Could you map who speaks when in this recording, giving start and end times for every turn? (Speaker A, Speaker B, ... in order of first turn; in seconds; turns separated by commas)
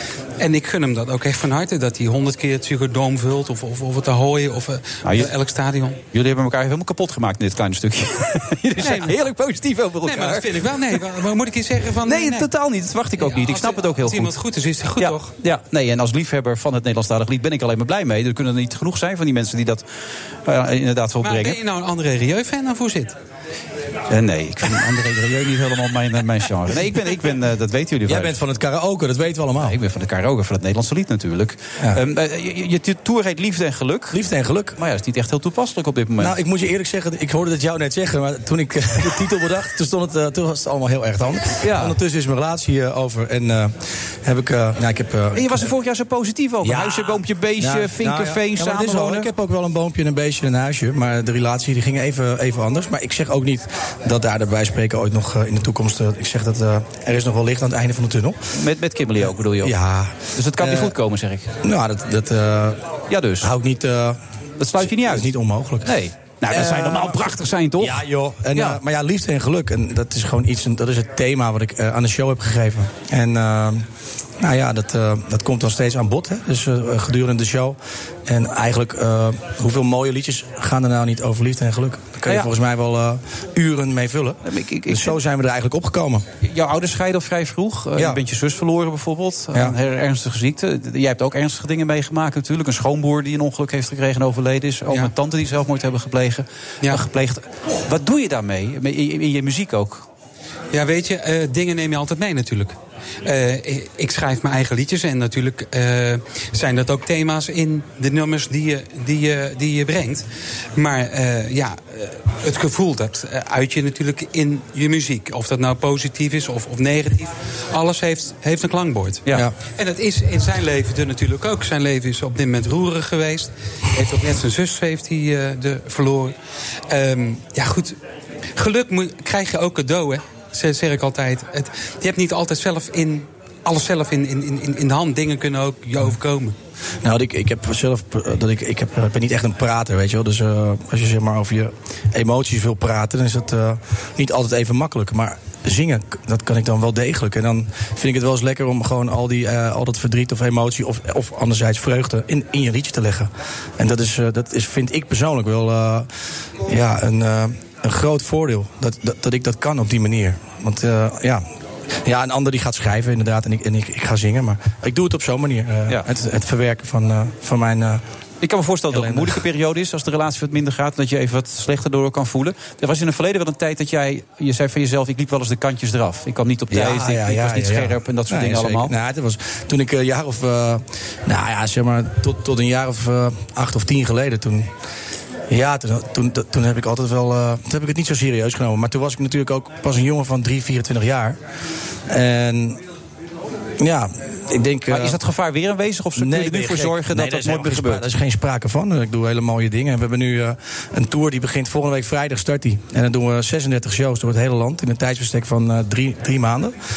Speaker A: 0.4-6.0, Speaker B: 5.0-5.3, Speaker B: 6.1-10.5, Speaker A: 8.8-9.2, Speaker A: 10.1-12.5, Speaker B: 12.1-14.3, Speaker A: 13.2-15.3, Speaker B: 15.0-21.6, Speaker A: 21.2-23.1, Speaker B: 24.1-28.4, Speaker C: 28.1-29.8, Speaker B: 29.6-34.2, Speaker C: 34.1-34.8, Speaker B: 34.8-36.4, Speaker C: 36.2-45.7, Speaker B: 41.6-42.0, Speaker B: 45.3-49.3, Speaker C: 46.6-58.4, Speaker B: 58.5-59.8, Speaker C: 59.2-60.9, Speaker B: 60.4-61.5, Speaker C: 61.6-62.9, Speaker B: 63.1-63.5, Speaker C: 63.4-64.2, Speaker B: 64.6-65.3, Speaker C: 64.8-65.9, Speaker B: 65.8-68.8, Speaker C: 66.5-73.8, Speaker C: 74.4-86.3, Speaker B: 84.5-85.2, Speaker B: 86.4-100.1, Speaker A: 100.7-110.2, Speaker A: 110.8-126.3, Speaker A: 126.9-128.0, Speaker A: 128.6-136.6, Speaker C: 137.0-156.1, Speaker C: 156.7-161.4, Speaker C: 162.1-168.0, Speaker B: 168.4-178.9, Speaker C: 168.9-169.4, Speaker C: 176.7-184.7, Speaker C: 185.5-191.4, Speaker C: 192.1-192.8, Speaker C: 193.8-195.2, Speaker B: 194.9-198.1, Speaker C: 196.2-206.8